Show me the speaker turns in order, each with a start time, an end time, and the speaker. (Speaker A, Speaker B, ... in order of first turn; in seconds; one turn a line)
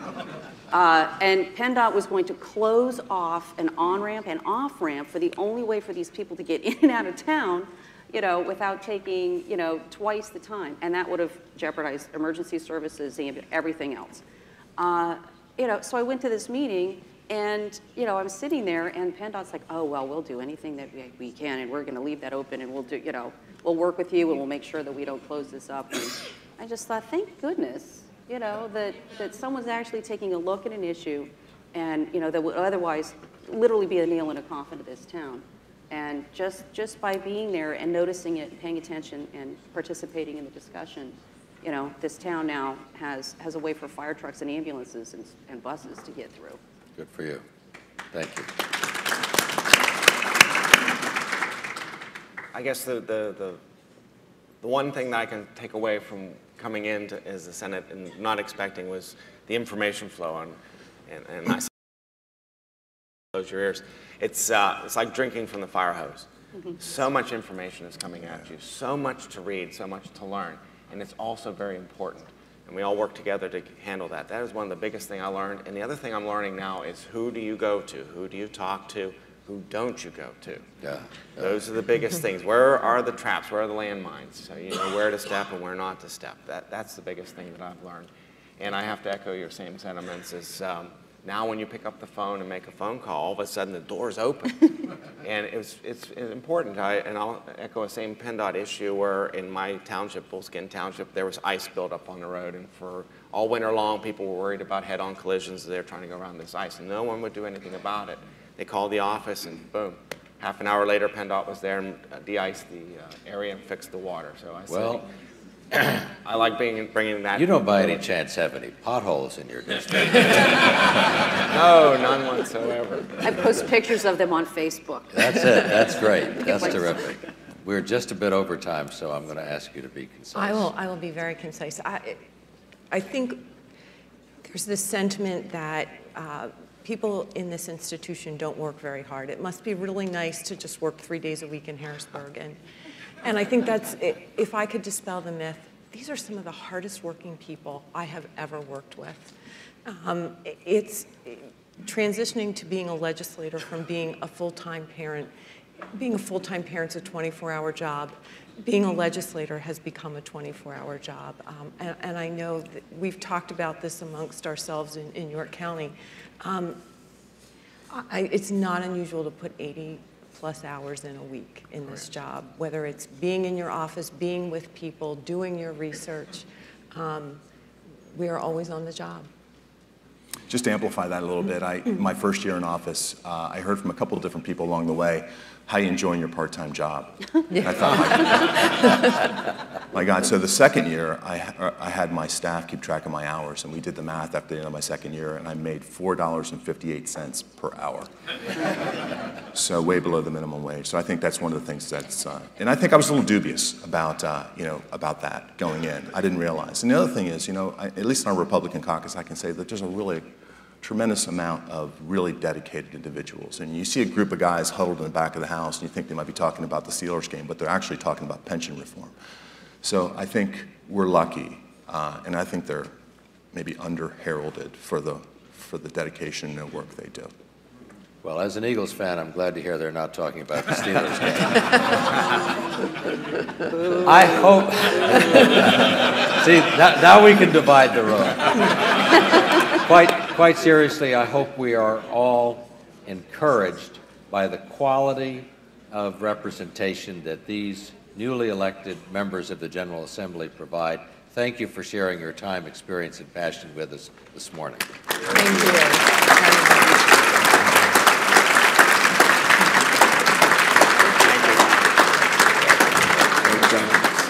Speaker A: 0.7-14.2
Speaker A: 14.8-46.6
Speaker B: 47.0-47.4
Speaker B: 48.1-48.5
Speaker C: 52.5-53.6
Speaker C: 54.6-61.7
Speaker C: 63.3-80.7
Speaker B: 80.8-81.5
Speaker C: 81.4-115.1
Speaker B: 114.7-115.0
Speaker C: 115.7-117.5
Speaker B: 117.3-121.1
Speaker C: 121.5-123.2
Speaker A: 123.2-125.7
Speaker B: 125.2-130.7
Speaker A: 126.4-126.9
Speaker D: 130.3-132.2
Speaker D: 132.9-133.5
Speaker D: 134.4-142.6
Speaker D: 143.2-149.3
Speaker D: 149.8-155.3
Speaker D: 155.9-166.8
Speaker D: 167.9-177.4
Speaker D: 178.1-179.3
Speaker E: 180.5-188.8
Speaker D: 187.5-188.7
Speaker E: 189.9-210.2
Speaker E: 210.8-219.2
Speaker E: 219.8-222.9
Speaker E: 223.5-227.3
Speaker B: 228.2-232.2
Speaker B: 233.9-255.4
Speaker D: 255.3-257.2
Speaker D: 261.0-261.8
Speaker D: 263.3-263.7
Speaker C: 263.6-264.1